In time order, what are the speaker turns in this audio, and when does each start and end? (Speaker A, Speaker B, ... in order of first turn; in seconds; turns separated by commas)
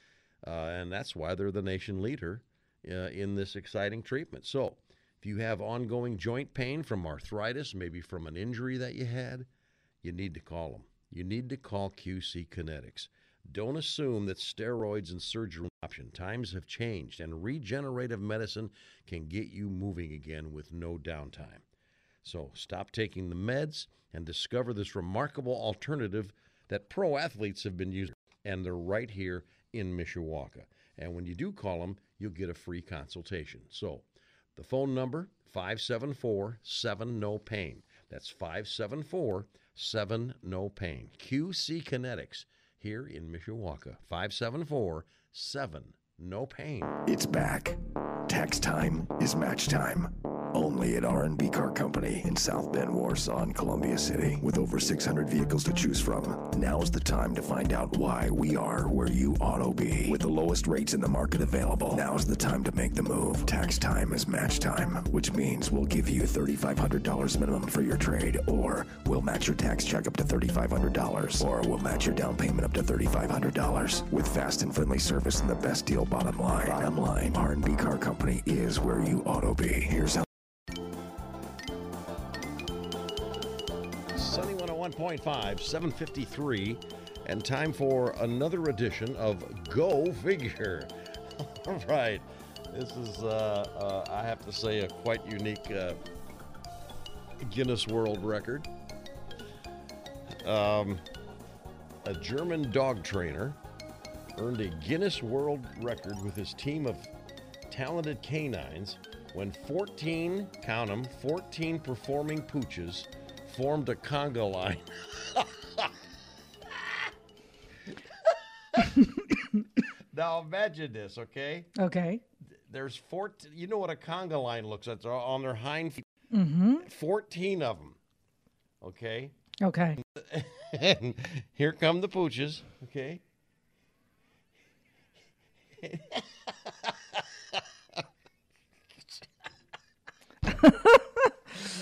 Speaker A: 0.4-9.5, Speaker A: 10.0-21.6, Speaker A: 22.2-34.0, Speaker A: 34.5-47.0, Speaker B: 47.0-80.3, Speaker A: 84.1-96.0, Speaker A: 97.4-98.7, Speaker A: 100.4-101.0, Speaker A: 102.0-103.6, Speaker A: 104.4-107.1, Speaker A: 107.7-115.9, Speaker A: 116.7-117.1, Speaker A: 117.9-119.2, Speaker A: 119.8-121.7, Speaker C: 121.8-122.2, Speaker A: 122.7-126.0, Speaker C: 126.3-126.9, Speaker A: 126.8-128.0, Speaker A: 128.8-129.3, Speaker C: 129.6-130.0, Speaker A: 130.0-133.2, Speaker A: 135.8-137.2, Speaker C: 140.4-141.7